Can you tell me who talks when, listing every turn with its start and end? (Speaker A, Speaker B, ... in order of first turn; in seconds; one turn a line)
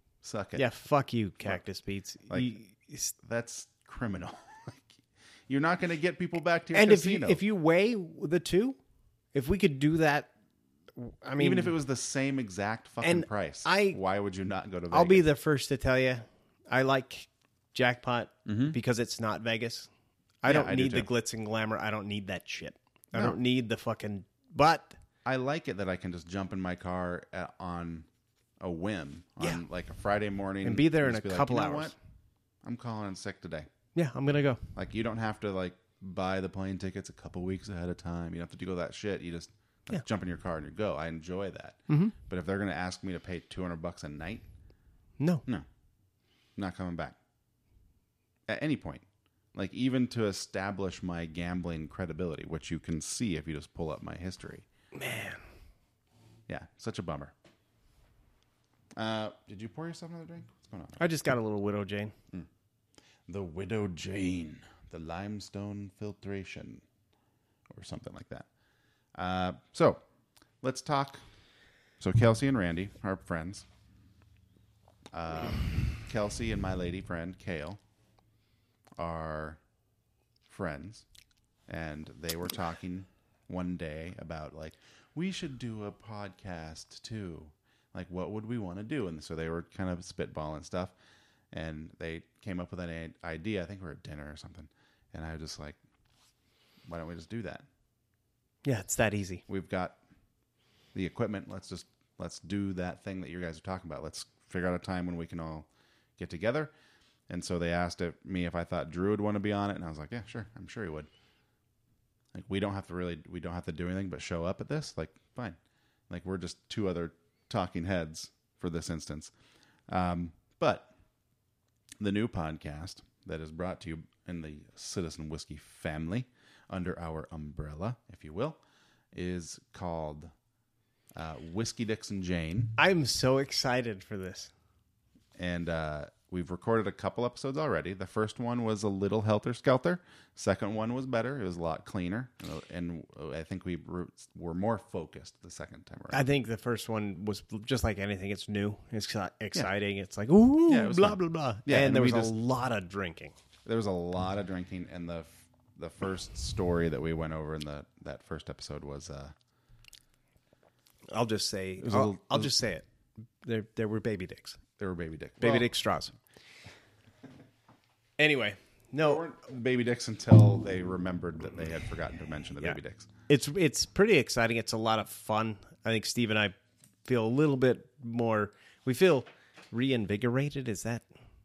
Speaker A: 0.2-0.7
Speaker B: 0.6-3.1
Speaker A: 3.2-7.4
Speaker B: 6.7-8.8
Speaker B: 9.3-10.3
Speaker B: 11.0-11.7
Speaker A: 11.4-15.2
Speaker B: 13.0-14.0
Speaker B: 14.9-19.9
Speaker A: 18.5-18.8
Speaker B: 20.4-25.0
Speaker A: 20.5-21.1
Speaker A: 25.2-28.1
Speaker A: 28.6-31.9
Speaker B: 30.6-31.9
Speaker A: 32.6-33.7
Speaker B: 34.0-34.7
Speaker A: 34.8-44.5
Speaker B: 41.9-42.1
Speaker B: 45.2-45.4
Speaker A: 46.6-47.2
Speaker A: 48.5-54.7
Speaker B: 54.9-55.4
Speaker A: 56.5-57.3
Speaker A: 59.0-61.0
Speaker B: 61.0-62.1
Speaker A: 63.3-66.8
Speaker A: 67.7-68.5
Speaker A: 69.2-70.0
Speaker A: 70.6-71.2
Speaker A: 72.0-73.7
Speaker A: 75.1-77.8
Speaker A: 79.0-79.6
Speaker A: 80.5-81.1
Speaker A: 81.7-90.9
Speaker A: 91.5-95.8
Speaker A: 96.9-97.7
Speaker B: 98.6-99.4
Speaker A: 99.5-100.0
Speaker A: 100.9-106.7
Speaker A: 107.3-111.1
Speaker A: 112.3-115.6
Speaker A: 116.1-119.3
Speaker A: 119.9-120.9
Speaker A: 122.0-128.6
Speaker A: 129.1-130.3
Speaker A: 131.2-132.8
Speaker B: 132.8-134.5
Speaker A: 135.4-146.2
Speaker B: 146.1-153.3
Speaker A: 150.7-152.3
Speaker A: 153.7-159.3
Speaker B: 161.1-162.8
Speaker A: 161.8-162.5
Speaker B: 163.4-164.6
Speaker A: 164.8-165.7
Speaker B: 165.4-166.2
Speaker B: 168.2-169.2
Speaker A: 169.0-173.1
Speaker B: 172.6-176.5
Speaker B: 177.1-181.1